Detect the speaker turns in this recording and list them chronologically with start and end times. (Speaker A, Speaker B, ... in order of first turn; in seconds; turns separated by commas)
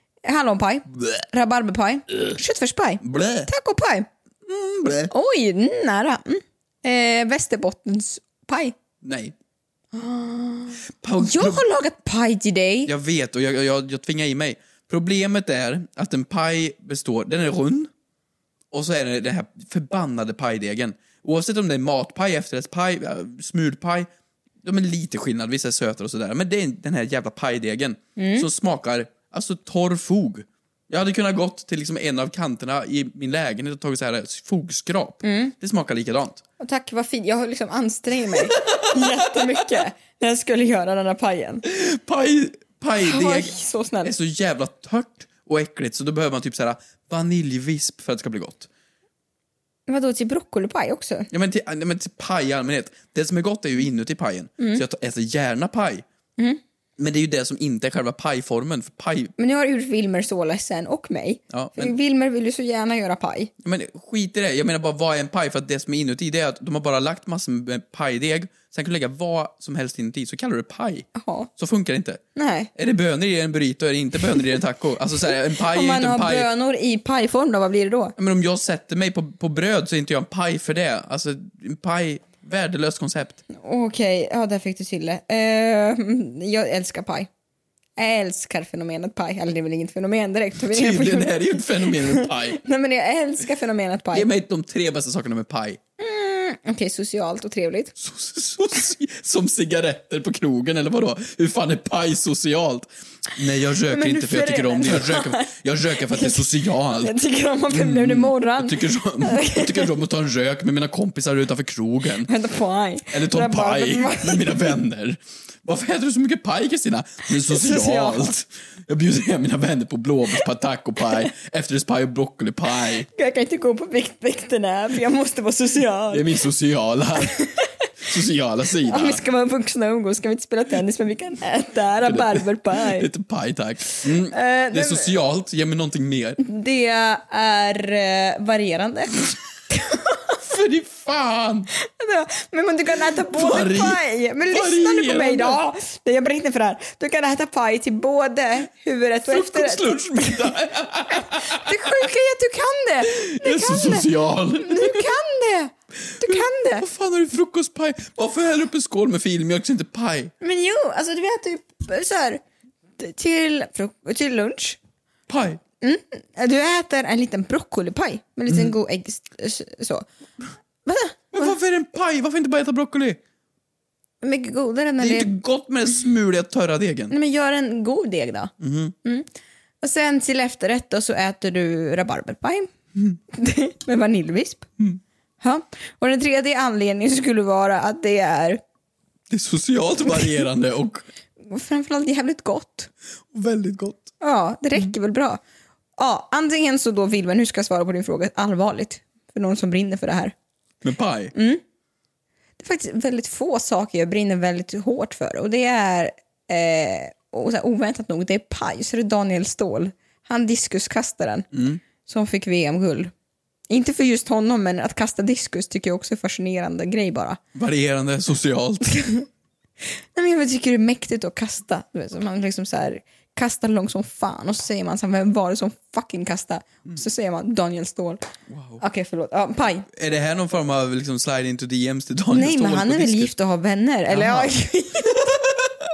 Speaker A: 0.2-4.1, Speaker B: 3.0-3.5, Speaker B: 4.5-5.1, Speaker A: 5.1-8.8, Speaker B: 9.0-9.3, Speaker A: 9.9-12.9, Speaker B: 11.0-11.6, Speaker B: 12.9-17.9, Speaker B: 18.7-24.1, Speaker B: 24.6-36.4, Speaker A: 28.2-28.5, Speaker A: 35.2-35.5, Speaker A: 36.6-41.6, Speaker B: 38.6-39.8, Speaker B: 41.7-48.7, Speaker A: 43.0-44.1, Speaker A: 49.9-51.3, Speaker B: 51.3-56.0, Speaker B: 57.0-59.3, Speaker A: 59.4-63.5, Speaker B: 61.5-61.9, Speaker B: 63.6-72.2, Speaker A: 71.2-71.5, Speaker A: 72.4-72.7, Speaker B: 72.8-76.5, Speaker A: 75.6-78.1, Speaker B: 78.2-83.4, Speaker A: 83.5-87.3, Speaker A: 88.0-94.3, Speaker B: 90.7-92.6, Speaker B: 94.1-95.8, Speaker A: 96.0-98.0, Speaker B: 98.0-107.1, Speaker A: 103.9-105.5, Speaker A: 106.1-106.5, Speaker A: 107.0-109.9, Speaker B: 107.7-112.3, Speaker A: 112.3-114.7, Speaker B: 113.1-123.1, Speaker A: 117.5-118.3, Speaker A: 123.1-126.3, Speaker B: 126.1-127.4, Speaker A: 127.2-127.6, Speaker B: 128.0-129.2, Speaker A: 128.9-133.1, Speaker B: 132.1-136.4, Speaker A: 134.3-135.1, Speaker A: 136.4-140.4, Speaker B: 140.4-141.7, Speaker A: 141.8-150.5, Speaker B: 143.1-145.6, Speaker B: 149.3-151.7, Speaker A: 151.1-156.9, Speaker B: 153.1-155.1, Speaker B: 156.2-160.3, Speaker A: 160.4-162.4, Speaker A: 163.0-164.8, Speaker B: 165.3-165.6, Speaker A: 165.8-170.1, Speaker B: 168.5-168.7, Speaker A: 170.9-171.5, Speaker B: 171.3-173.2, Speaker A: 174.2-175.3, Speaker B: 175.0-177.1, Speaker A: 177.1-178.5, Speaker B: 178.6-178.9, Speaker A: 179.8-182.7, Speaker A: 183.3-184.7, Speaker A: 185.4-188.6, Speaker B: 189.3-191.1, Speaker A: 191.5-192.9, Speaker B: 193.3-194.1, Speaker A: 194.2-195.4, Speaker A: 196.0-200.3, Speaker B: 200.8-201.3, Speaker A: 201.3-201.6, Speaker A: 202.6-211.5, Speaker B: 211.5-211.8, Speaker A: 212.1-213.1, Speaker A: 213.7-217.4, Speaker B: 217.6-219.0, Speaker A: 220.2-228.2, Speaker B: 228.5-228.8, Speaker A: 228.8-229.9, Speaker B: 229.9-233.3, Speaker A: 232.3-235.4, Speaker B: 234.1-234.5